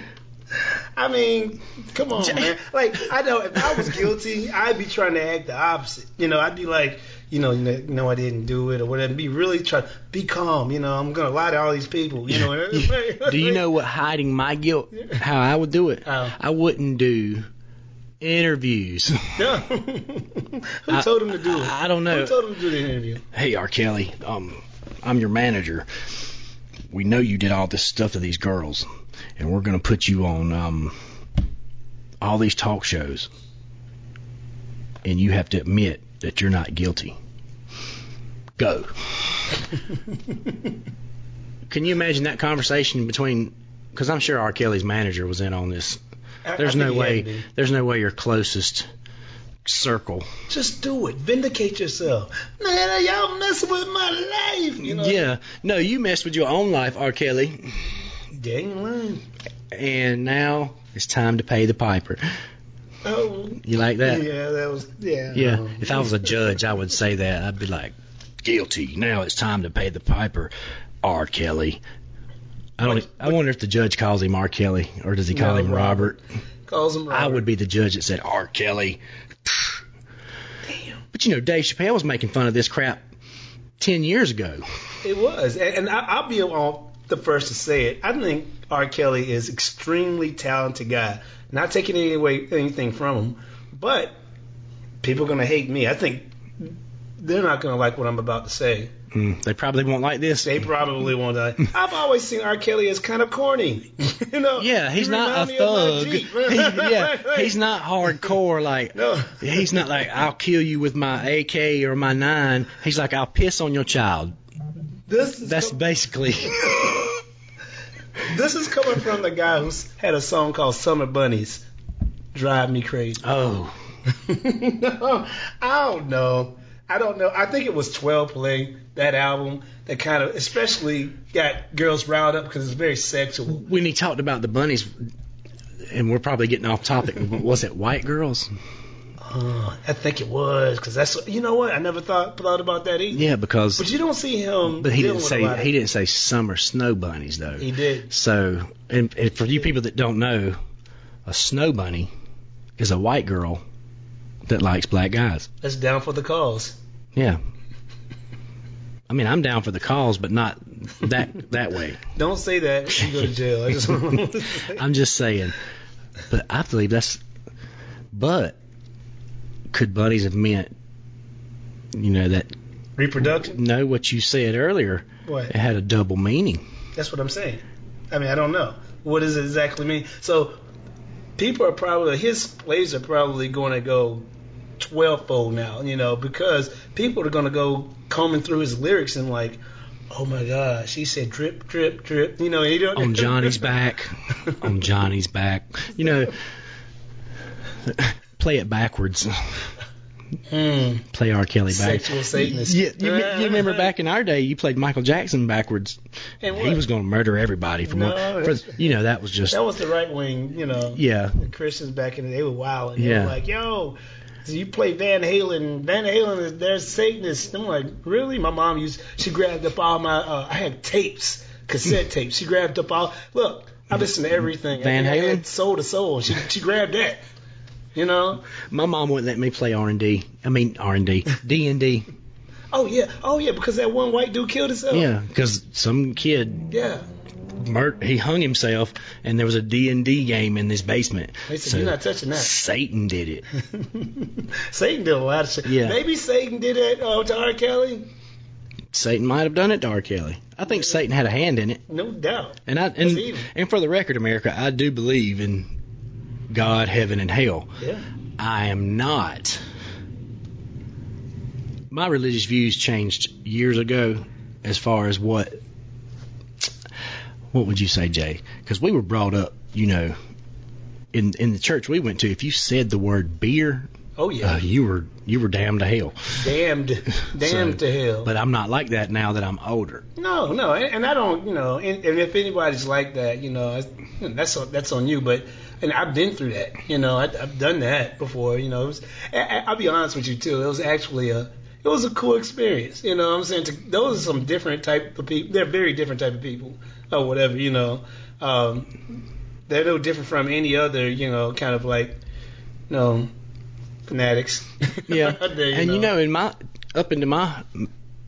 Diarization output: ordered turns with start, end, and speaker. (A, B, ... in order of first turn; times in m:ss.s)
0:00.6-0:13.7 A
0:02.2-0:02.6 B
0:03.6-0:04.0 B
0:12.3-0:17.4 B
0:16.0-0:16.4 A
0:18.2-0:19.4 B
0:19.4-0:23.2 A
0:20.9-0:22.4 B
0:23.3-0:25.9 B
0:26.9-0:28.8 B
0:29.4-0:30.9 B
0:32.2-0:33.3 B
0:35.0-0:37.2 B
0:38.6-0:39.6 B
0:41.7-0:46.0 B
0:46.4-0:47.5 A
0:46.6-0:48.9 B
0:49.6-0:50.3 B
0:50.5-0:55.3 A
0:54.8-0:57.7 B
0:58.3-0:59.2 A
0:59.7-1:02.2 B
1:03.0-1:06.4 A
1:03.6-1:04.2 B
1:05.3-1:11.8 B
1:12.8-1:16.2 B
1:12.8-1:13.4 A
1:15.3-1:17.5 A
1:17.1-1:19.8 B
1:20.7-1:21.0 A
1:21.1-1:23.0 B
1:23.8-1:24.6 B
1:25.0-1:34.2 A
1:35.0-1:38.9 A
1:39.1-1:40.7 B
1:40.4-1:48.3 A
1:44.6-1:54.4 B
1:48.9-1:49.8 A
1:55.1-1:55.8 A
1:55.4-1:57.0 B
1:58.2-2:01.7 A
2:02.3-2:03.2 A
2:03.2-2:03.7 B
2:04.1-2:13.6 A
2:13.5-2:14.9 B
2:15.9-2:18.5 B
2:19.2-2:23.3 A
2:23.1-2:23.8 B
2:23.8-2:25.7 A
2:24.7-2:30.6 B
2:27.6-2:28.1 A
2:31.3-2:32.1 B
2:32.8-2:33.6 B
2:34.5-2:35.5 B
2:35.6-2:36.8 A
2:39.1-2:42.0 B
2:42.2-2:44.8 A
2:44.7-2:45.6 B
2:46.3-2:47.2 B
2:48.1-2:48.6 B
2:49.7-2:50.7 B
2:51.9-2:52.5 B
2:53.0-2:53.6 A
2:53.2-2:56.6 B
2:55.2-2:55.5 A
2:57.0-3:00.6 A
3:01.4-3:04.3 A
3:04.8-3:09.6 A
3:10.1-3:13.8 A
3:13.0-3:16.3 B
3:17.8-3:19.7 B
3:20.5-3:21.1 A
3:21.1-3:29.6 B
3:21.7-3:23.9 A
3:26.4-3:26.8 A
3:27.8-3:28.8 A
3:29.5-3:47.2 A
3:30.9-3:31.4 B
3:33.0-3:33.3 B
3:44.7-3:45.4 B
3:47.9-3:48.4 A
3:48.7-3:52.1 B
3:52.7-3:55.1 A
3:54.9-3:56.7 B
3:56.7-3:57.1 A
3:57.6-4:03.4 B
4:01.5-4:02.5 A
4:03.6-4:08.1 A
4:05.6-4:06.0 B
4:08.9-4:11.8 B
4:11.9-4:13.5 A
4:12.7-4:15.7 B
4:16.5-4:17.7 B
4:18.4-4:19.6 B
4:21.9-4:25.6 B
4:27.5-4:30.2 B
4:31.1-4:33.9 B
4:34.2-4:34.6 A
4:34.4-4:36.2 B
4:36.3-4:38.3 A
4:37.4-4:40.0 B
4:40.2-4:58.9 A
4:59.7-5:02.2 A
5:02.9-5:03.3 A
5:04.1-5:06.1 A
5:05.1-5:07.9 B